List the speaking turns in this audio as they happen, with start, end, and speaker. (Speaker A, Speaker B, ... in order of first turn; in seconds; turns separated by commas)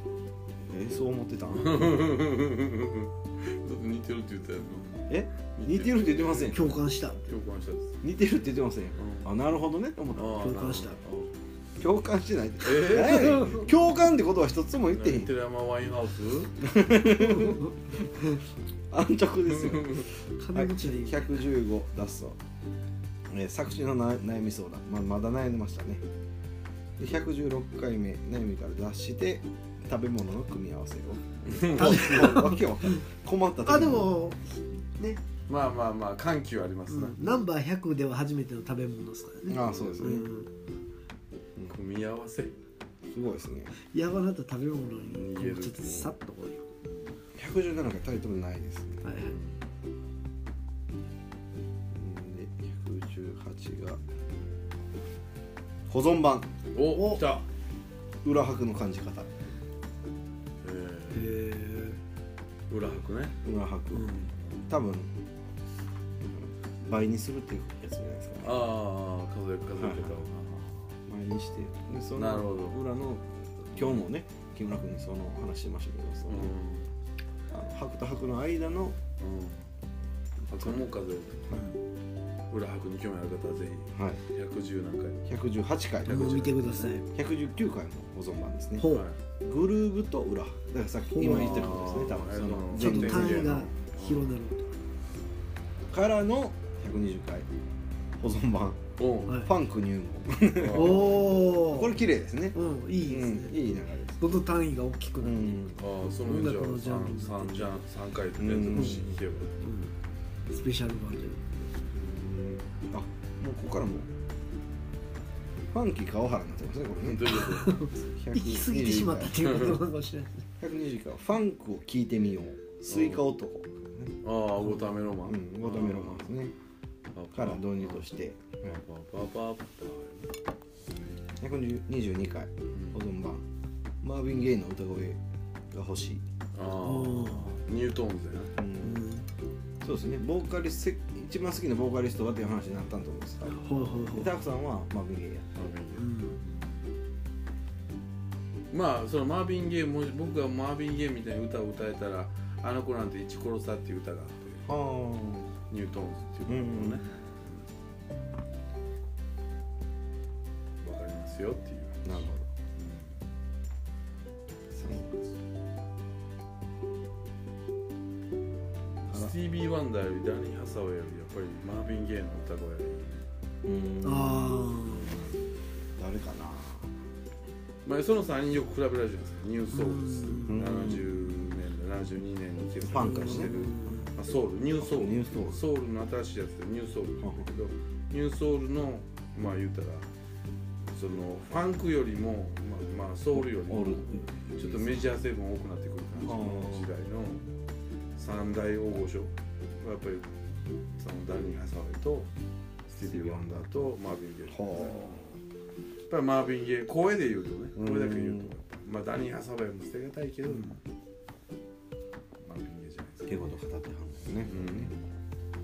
Speaker A: 0.6-2.0, Speaker B: 1.5-8.0, Speaker A: 5.1-6.8, Speaker C: 6.5-7.2, Speaker A: 8.0-10.6, Speaker B: 9.0-9.3, Speaker B: 10.1-11.3, Speaker C: 10.3-11.0, Speaker A: 11.8-15.3, Speaker B: 12.6-13.7, Speaker C: 13.3-13.7, Speaker B: 14.9-16.6, Speaker A: 16.6-17.7, Speaker C: 17.2-17.7, Speaker A: 18.9-22.4, Speaker B: 19.6-20.0, Speaker C: 20.4-21.4, Speaker A: 23.3-26.0, Speaker A: 27.0-34.1, Speaker B: 31.5-32.4, Speaker C: 31.7-33.0, Speaker C: 33.6-35.2, Speaker B: 35.5-37.2, Speaker C: 36.9-40.5, Speaker A: 39.5-40.3, Speaker B: 39.6-40.2, Speaker B: 41.7-42.5, Speaker A: 43.1-43.7, Speaker C: 43.7-46.7, Speaker B: 45.0-46.1, Speaker A: 47.3-49.1, Speaker C: 49.0-49.3, Speaker B: 49.2-49.6, Speaker A: 51.9-54.0, Speaker A: 55.9-56.5, Speaker B: 56.7-57.5, Speaker C: 56.9-57.2, Speaker A: 58.2-59.3, Speaker B: 60.6-61.4, Speaker C: 61.1-62.0, Speaker B: 62.7-63.4, Speaker A: 63.4-65.1, Speaker C: 63.9-64.3, Speaker B: 64.4-64.7, Speaker A: 66.2-68.7, Speaker B: 68.4-70.9, Speaker A: 69.7-70.2, Speaker A: 71.1-76.5, Speaker B: 72.1-72.8, Speaker B: 73.7-74.0, Speaker B: 76.3-76.9, Speaker A: 77.5-79.0, Speaker B: 79.2-79.6, Speaker B: 80.5-81.5, Speaker B: 82.5-85.2, Speaker A: 83.9-84.2, Speaker A: 85.3-88.9, Speaker C: 86.0-87.1, Speaker B: 86.2-86.4, Speaker C: 88.8-89.1, Speaker B: 88.8-89.2, Speaker A: 89.4-93.6, Speaker C: 91.1-91.7, Speaker B: 91.2-94.3, Speaker C: 92.7-94.7, Speaker A: 95.9-97.5, Speaker A: 98.2-104.4, Speaker B: 99.0-99.3, Speaker C: 99.3-99.5, Speaker B: 100.5-101.4, Speaker C: 100.7-102.0, Speaker C: 102.5-103.6, Speaker C: 104.2-105.6, Speaker A: 105.2-105.8, Speaker B: 105.8-109.5, Speaker C: 106.2-107.7, Speaker A: 108.4-109.2, Speaker C: 108.7-109.0, Speaker C: 109.6-109.9, Speaker C: 110.5-111.5, Speaker A: 111.9-114.1, Speaker A: 115.7-119.5, Speaker B: 117.0-117.8, Speaker C: 117.3-120.5, Speaker B: 119.4-119.8, Speaker A: 120.6-124.1, Speaker B: 122.9-123.2, Speaker B: 124.2-126.3, Speaker A: 125.3-126.5, Speaker B: 127.1-128.0, Speaker A: 127.3-128.8, Speaker B: 128.6-130.3, Speaker A: 131.4-133.4, Speaker A: 134.0-136.2, Speaker B: 136.5-138.5, Speaker C: 136.8-137.6, Speaker A: 138.6-139.0, Speaker C: 138.8-139.2, Speaker A: 139.8-145.6, Speaker C: 143.5-144.3, Speaker B: 143.7-144.2, Speaker B: 145.6-146.7, Speaker C: 145.9-146.4, Speaker B: 148.7-154.7, Speaker A: 154.6-155.5, Speaker B: 155.7-157.6, Speaker A: 156.5-157.0, Speaker B: 160.8-162.1, Speaker A: 162.0-162.5, Speaker B: 162.8-163.1, Speaker A: 164.8-165.1, Speaker B: 164.8-165.3, Speaker B: 169.1-173.2, Speaker A: 173.6-175.3, Speaker C: 174.0-175.2, Speaker A: 175.9-176.9, Speaker B: 177.8-190.1, Speaker C: 179.7-180.6, Speaker A: 180.5-181.1, Speaker A: 182.8-183.5, Speaker C: 183.0-184.1, Speaker A: 184.8-185.6, Speaker B: 190.9-197.4, Speaker A: 193.3-195.1, Speaker A: 196.2-196.9, Speaker B: 198.2-200.3, Speaker B: 201.0-202.3, Speaker B: 202.9-205.4, Speaker A: 203.0-203.9, Speaker A: 204.5-205.2, Speaker B: 206.1-210.8, Speaker A: 207.8-208.5, Speaker B: 212.4-213.6, Speaker A: 213.3-214.9, Speaker B: 214.4-215.0